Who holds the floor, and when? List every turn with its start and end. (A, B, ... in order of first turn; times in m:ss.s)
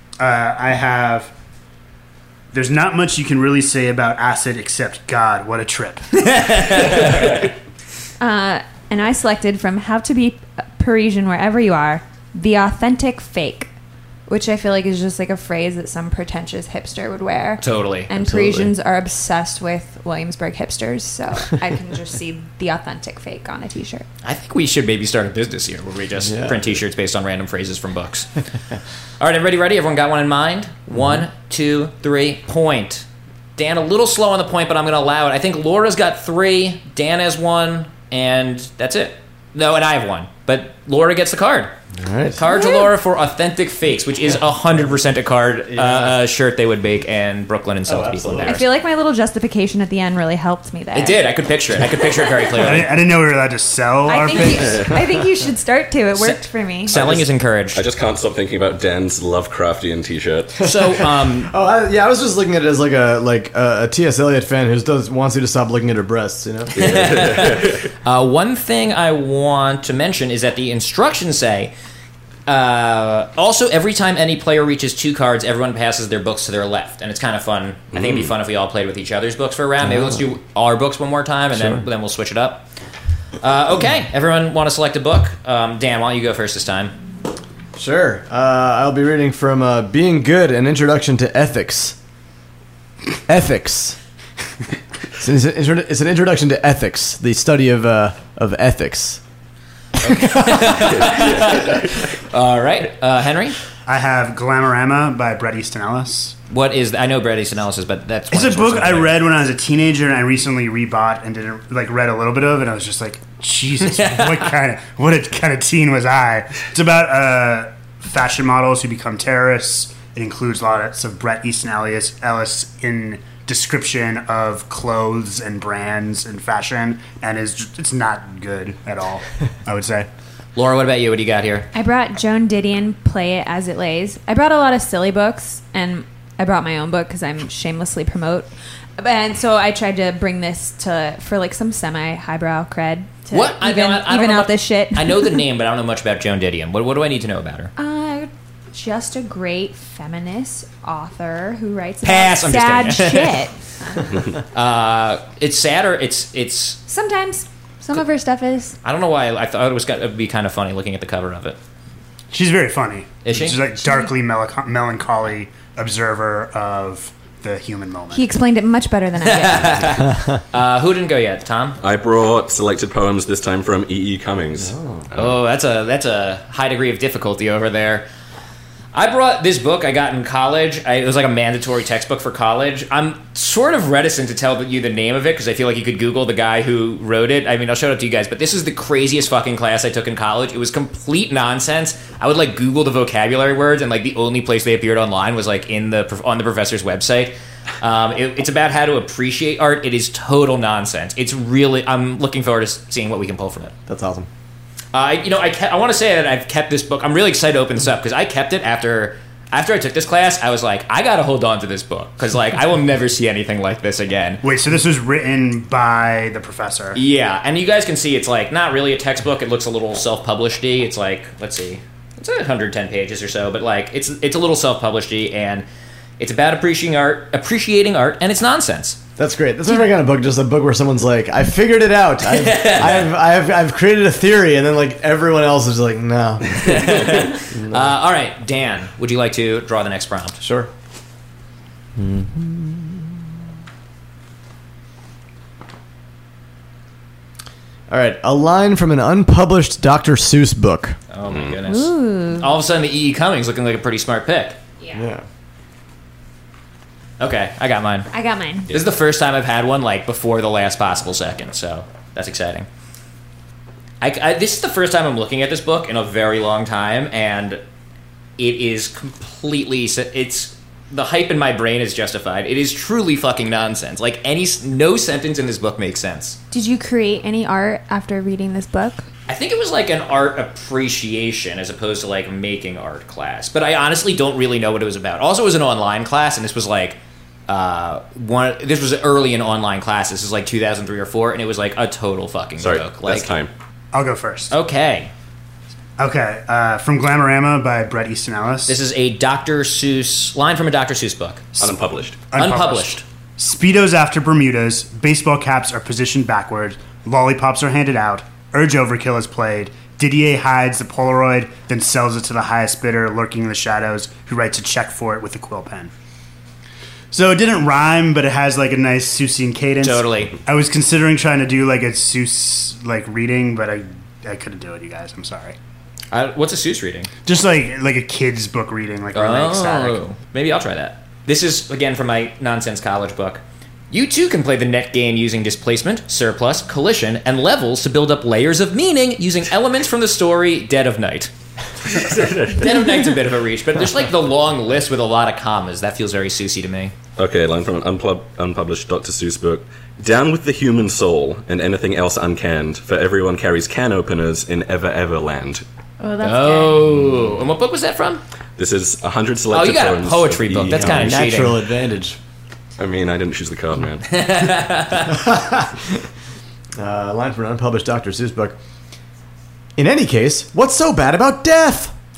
0:00.2-0:01.3 A
0:02.5-0:06.7 A
0:06.2-0:07.3 B
0:08.2-0:13.7 C
0:14.3-0:24.0 C
0:17.6-0:18.1 B
0:18.3-0:18.6 D
0:24.2-0:28.3 B
0:26.2-0:26.8 D
0:29.2-0:41.7 B
0:31.0-0:31.2 D
0:41.9-0:42.4 D
0:42.3-0:48.6 B
0:42.4-0:42.9 C
0:45.7-0:46.2 D
0:47.8-0:48.6 D
0:48.4-0:51.2 C
0:50.9-0:52.9 B
0:52.6-0:55.0 A
0:54.0-0:57.0 C
0:56.2-0:57.8 B
0:56.9-1:00.6 E
1:00.6-1:01.5 B
1:00.6-1:06.8 D
1:06.8-1:07.9 E
1:06.8-1:11.7 B
1:12.5-1:22.6 B
1:17.9-1:18.3 E
1:21.5-1:21.8 D
1:23.4-1:26.9 B
1:27.8-1:32.0 D
1:33.3-1:34.0 D
1:35.2-1:39.2 D
1:40.0-1:43.6 B
1:40.1-1:40.7 D
1:41.0-1:41.7 E
1:43.8-1:46.4 A
1:46.5-1:49.2 B
1:48.3-2:10.1 A
1:54.0-1:54.3 B
2:10.6-2:11.7 B
2:11.7-2:25.4 C
2:23.3-2:27.7 B
2:27.8-2:34.2 C
2:32.0-2:33.4 B
2:34.5-2:36.8 B
2:36.9-2:38.8 C
2:38.8-2:41.6 B
2:42.3-2:48.3 A
2:43.2-2:43.6 B
2:48.1-2:50.0 C
2:49.2-2:51.8 B
2:51.8-2:55.4 E
2:54.6-2:55.1 D
2:55.1-2:58.1 B
2:58.9-3:23.7 B
3:23.9-3:24.3 D
3:24.9-3:34.4 B
3:34.4-3:37.0 A
3:36.9-3:45.6 B
3:46.2-3:49.0 B
3:49.2-3:57.9 D
3:52.3-3:53.1 B
3:56.6-4:00.4 B
4:00.4-4:00.7 D
4:02.0-4:03.1 D
4:07.9-4:11.0 D
4:11.1-4:14.6 B
4:11.3-4:11.6 E
4:11.6-4:12.5 C
4:14.9-4:15.2 D
4:17.2-4:18.1 B
4:18.1-4:18.7 C
4:18.7-4:22.7 B
4:24.0-4:27.6 B
4:28.4-4:36.4 B
4:36.5-4:39.0 C
4:39.3-4:53.3 B
4:52.6-4:53.5 E
4:53.9-4:54.5 A
4:54.5-4:55.1 B
4:56.0-4:58.8 A
4:58.7-5:01.4 B
5:01.6-5:02.2 E
5:02.3-5:15.9 A
5:02.3-5:03.0 B
5:17.1-5:25.6 A
5:19.8-5:20.4 B
5:26.1-5:27.1 B
5:27.2-5:30.0 A
5:29.1-5:41.3 B
5:41.9-5:42.6 E
5:42.5-5:46.9 B
5:47.2-5:55.6 E
5:56.0-5:56.9 C
5:56.2-5:58.2 B
5:58.6-6:01.2 E
5:59.5-6:01.6 B
6:00.7-6:02.2 D
6:02.8-6:04.2 E
6:04.1-6:05.2 B
6:05.1-6:06.0 D
6:06.8-6:08.6 D
6:09.8-6:11.9 D